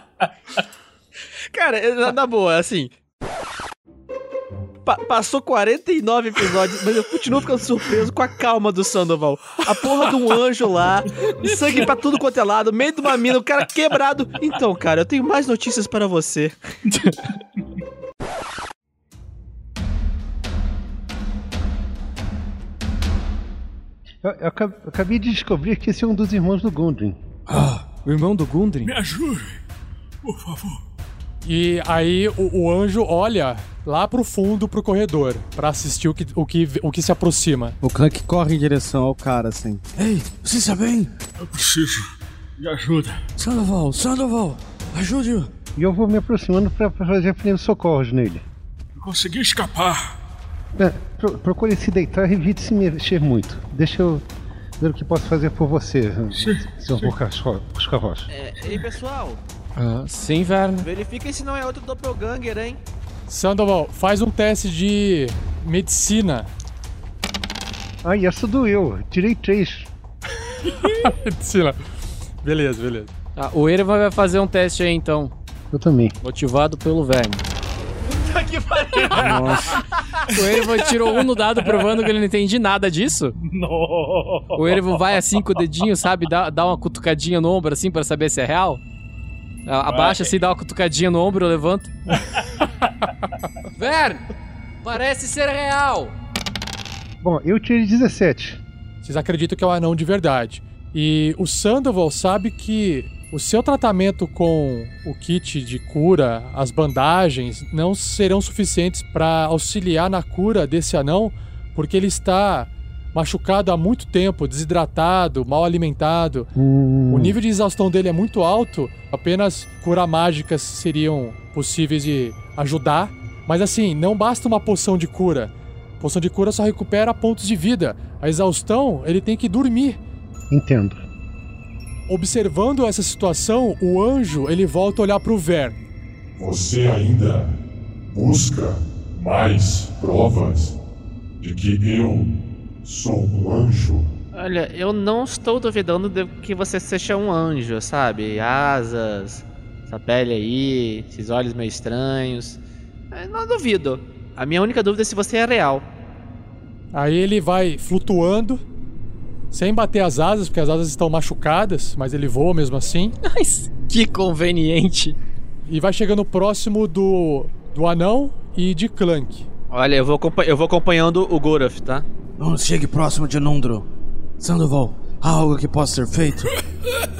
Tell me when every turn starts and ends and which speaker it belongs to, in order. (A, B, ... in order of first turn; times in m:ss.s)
0:01.5-0:02.9 A
0:04.8-0:16.6 A
0:24.2-0:27.2 B
0:27.5-0:27.8 C
0:28.0-0:28.9 D
0:28.8-0:29.6 E
0:30.2-0:30.8 E
0:31.4-0:37.8 F
0:37.8-0:41.1 C
0:41.4-0:42.0 E
0:42.6-0:43.2 E
0:43.4-0:45.5 C
0:45.8-0:48.4 B
0:49.0-0:50.2 E
0:50.8-0:54.2 B
0:54.8-0:58.3 B
0:56.3-0:57.1 E
0:58.3-0:59.4 A
0:59.8-1:00.9 D
1:00.8-1:02.8 A
1:03.3-1:06.5 F
1:08.0-1:09.9 B
1:11.0-1:11.8 F
1:12.4-1:13.1 F
1:13.4-1:15.3 D
1:15.7-1:16.1 B
1:16.2-1:17.4 D
1:18.3-1:19.4 A
1:18.9-1:19.8 E
1:19.2-1:19.7 D
1:20.3-1:22.1 E
1:20.4-1:23.3 D
1:23.4-1:25.9 E
1:24.6-1:28.8 D
1:29.6-1:31.9 D
1:29.8-1:30.3 E
1:33.8-1:34.3 D
1:34.8-1:36.1 D
1:37.2-1:38.6 B
1:39.0-1:56.5 F
1:56.5-1:57.4 B
1:57.1-2:10.0 F
2:10.5-2:11.0 B
2:12.1-2:15.8 F
2:16.4-2:17.5 G
2:18.1-2:20.8 G
2:21.4-2:22.3 G
2:22.8-2:24.1 G
2:24.3-2:32.6 A
2:33.1-2:35.8 A
2:36.9-2:38.6 F
2:39.5-2:43.2 F
2:43.2-2:45.2 D
2:45.7-2:49.4 F
2:49.7-2:52.0 A
2:52.4-2:53.9 C
2:54.4-2:56.5 C